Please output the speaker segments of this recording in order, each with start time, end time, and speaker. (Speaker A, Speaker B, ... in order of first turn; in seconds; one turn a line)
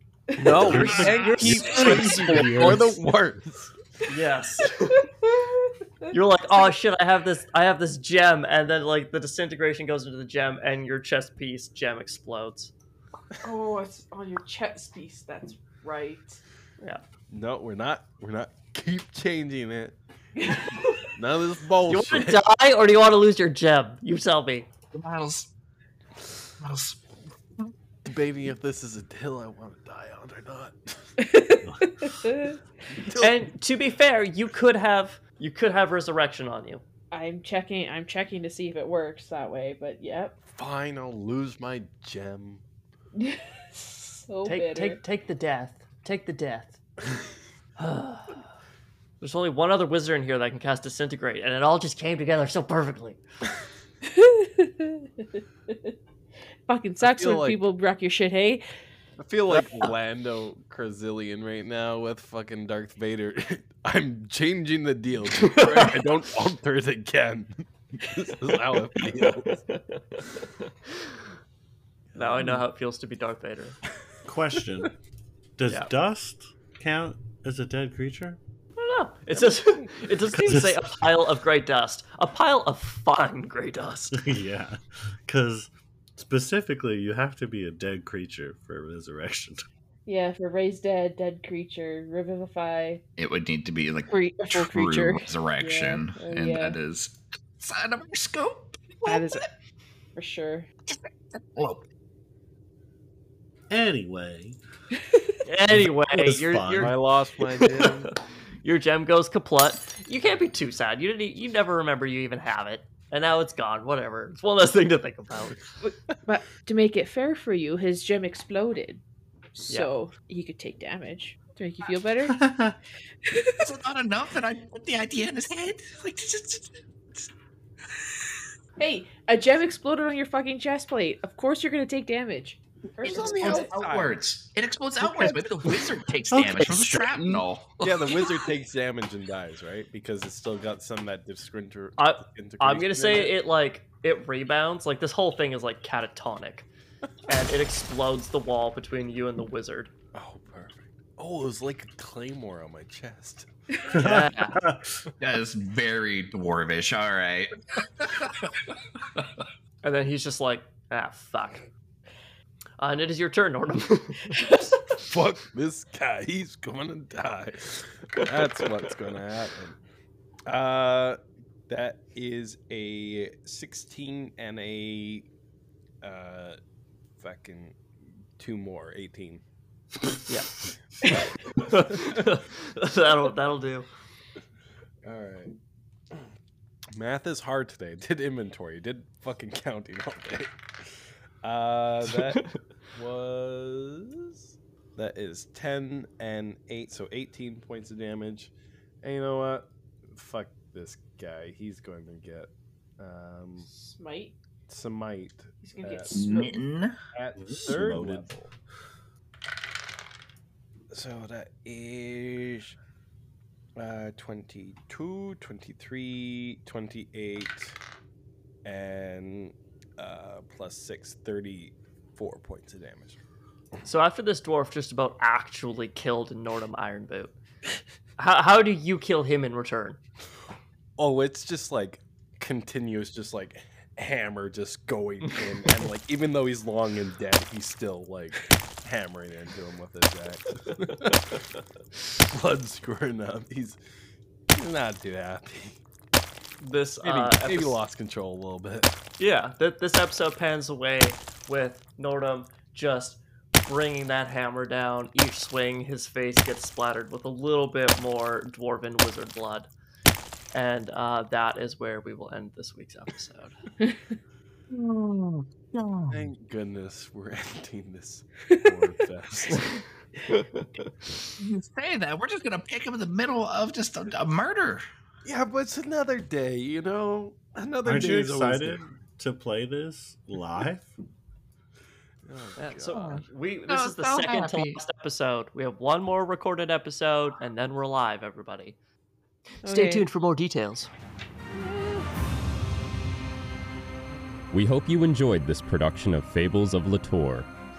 Speaker A: 0.3-0.6
Speaker B: 0.4-3.7
Speaker C: 0.5-3.0
Speaker D: 0.6-2.0
Speaker E: 0.7-2.8
Speaker E: 4.1-5.0
Speaker A: 5.0-6.1
Speaker E: 6.1-12.7
Speaker A: 13.4-16.4
Speaker B: 17.3-19.9
Speaker A: 20.4-21.1
Speaker B: 21.1-22.4
Speaker E: 21.9-24.7
Speaker D: 24.9-25.5
Speaker D: 26.6-27.7
Speaker B: 28.0-31.1
Speaker A: 31.2-32.6
Speaker C: 31.6-32.1
Speaker B: 32.9-33.5
Speaker E: 33.2-36.8
Speaker A: 37.1-40.4
Speaker B: 40.4-42.6
Speaker A: 43.1-45.0
Speaker E: 44.4-46.8
Speaker E: 47.8-48.5
Speaker E: 49.2-53.2
Speaker A: 54.0-55.9
Speaker A: 56.6-58.6
Speaker B: 57.0-57.6
Speaker B: 59.2-69.7
Speaker E: 65.4-66.0
Speaker E: 69.0-70.7
Speaker B: 72.1-72.6
Speaker E: 72.2-73.8
Speaker C: 74.2-74.9
Speaker C: 75.6-78.4
Speaker E: 78.8-84.2
Speaker B: 79.3-80.0
Speaker C: 80.3-81.0
Speaker C: 84.1-89.6
Speaker A: 90.0-93.0
Speaker D: 93.2-99.5
Speaker A: 94.1-96.8
Speaker A: 99.0-99.4
Speaker A: 100.1-100.7
Speaker D: 100.9-101.8
Speaker C: 103.7-104.6
Speaker A: 105.0-105.3
Speaker E: 105.4-108.1
Speaker C: 105.7-107.0
Speaker B: 106.8-108.1
Speaker E: 108.6-115.7
Speaker A: 115.8-119.0
Speaker A: 119.5-122.5
Speaker C: 122.3-122.8
Speaker A: 123.2-123.7
Speaker D: 123.6-127.3
Speaker A: 128.8-133.7
Speaker B: 133.0-134.2
Speaker D: 133.0-138.3
Speaker B: 135.0-135.7
Speaker C: 136.3-137.4
Speaker B: 137.8-143.3
Speaker E: 142.0-146.7
Speaker E: 147.2-149.9
Speaker B: 150.1-153.5
Speaker C: 153.9-155.0
Speaker E: 153.9-154.6
Speaker D: 155.2-159.4
Speaker E: 159.8-161.7
Speaker E: 162.8-164.4
Speaker B: 164.9-169.8
Speaker B: 170.5-175.3
Speaker B: 176.0-176.6
Speaker B: 177.2-179.4
Speaker E: 180.3-180.5
Speaker E: 181.0-183.9
Speaker B: 181.8-182.2
Speaker B: 185.0-185.5
Speaker B: 186.9-203.7
Speaker E: 192.1-192.6
Speaker A: 203.7-204.3
Speaker B: 204.7-206.2
Speaker A: 205.6-206.6
Speaker D: 206.1-207.0
Speaker B: 207.1-208.5
Speaker C: 207.3-208.3
Speaker B: 210.9-212.8
Speaker B: 213.8-217.8
Speaker B: 218.6-223.2
Speaker E: 223.8-227.3
Speaker E: 228.2-230.0
Speaker B: 231.0-241.4
Speaker E: 240.8-241.4
Speaker B: 242.3-243.8
Speaker B: 244.5-245.8
Speaker E: 246.6-247.8
Speaker B: 247.0-249.0
Speaker E: 249.2-259.7
Speaker E: 260.5-263.6
Speaker A: 263.8-264.1
Speaker D: 264.7-266.2
Speaker B: 266.1-269.8
Speaker A: 268.5-268.9
Speaker E: 269.5-270.9
Speaker D: 271.4-274.8
Speaker B: 275.2-278.8
Speaker C: 277.8-280.9
Speaker B: 282.2-283.2
Speaker E: 282.6-288.8
Speaker D: 283.7-284.8
Speaker A: 289.6-290.1
Speaker E: 289.6-290.9
Speaker F: 294.5-297.5